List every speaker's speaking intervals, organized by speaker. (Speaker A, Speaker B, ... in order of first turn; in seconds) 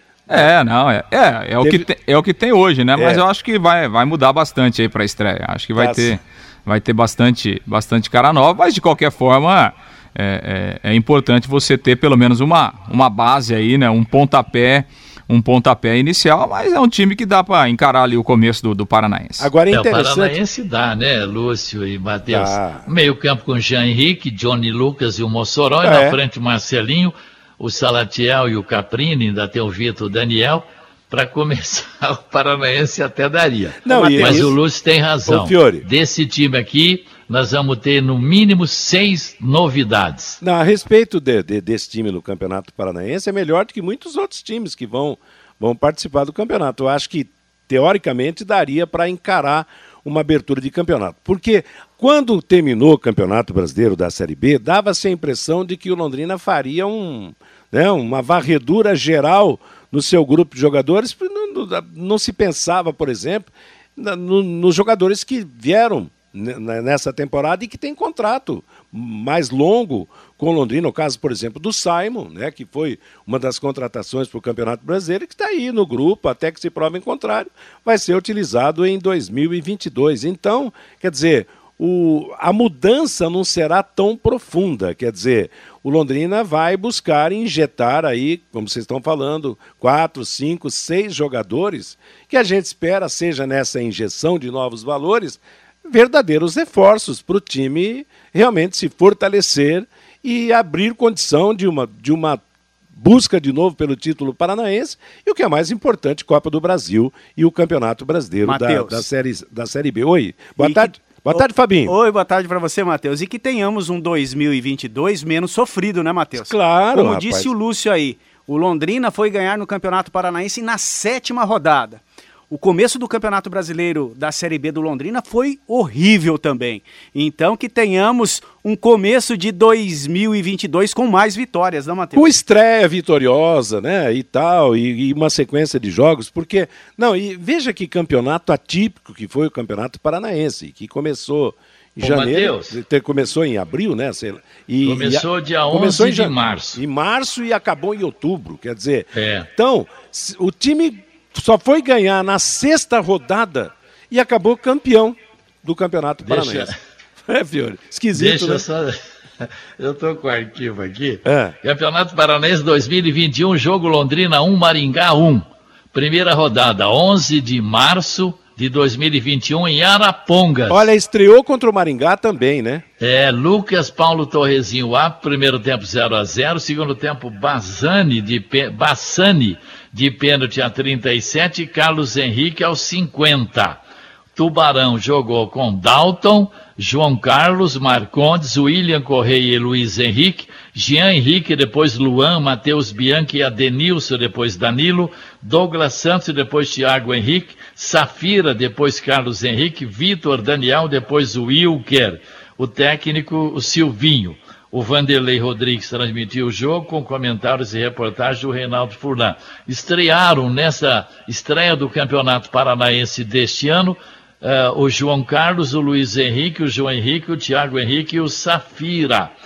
Speaker A: 0.3-19.5
Speaker B: 3.0-3.2, 5.8-6.1, 19.4-20.4, 22.2-22.8, 25.8-26.2, 33.8-34.5, 35.2-35.8, 40.4-102.4, 103.0-111.9, 116.3-117.5, 132.1-156.7, 157.2-158.6, 161.2-161.5, 170.7-172.8
Speaker C: 19.7-40.4, 142.0-142.8, 144.8-146.8, 149.1-149.5, 156.3-156.8, 158.1-170.9, 173.0-183.8, 184.3-219.3
Speaker D: 108.5-109.0, 110.5-132.3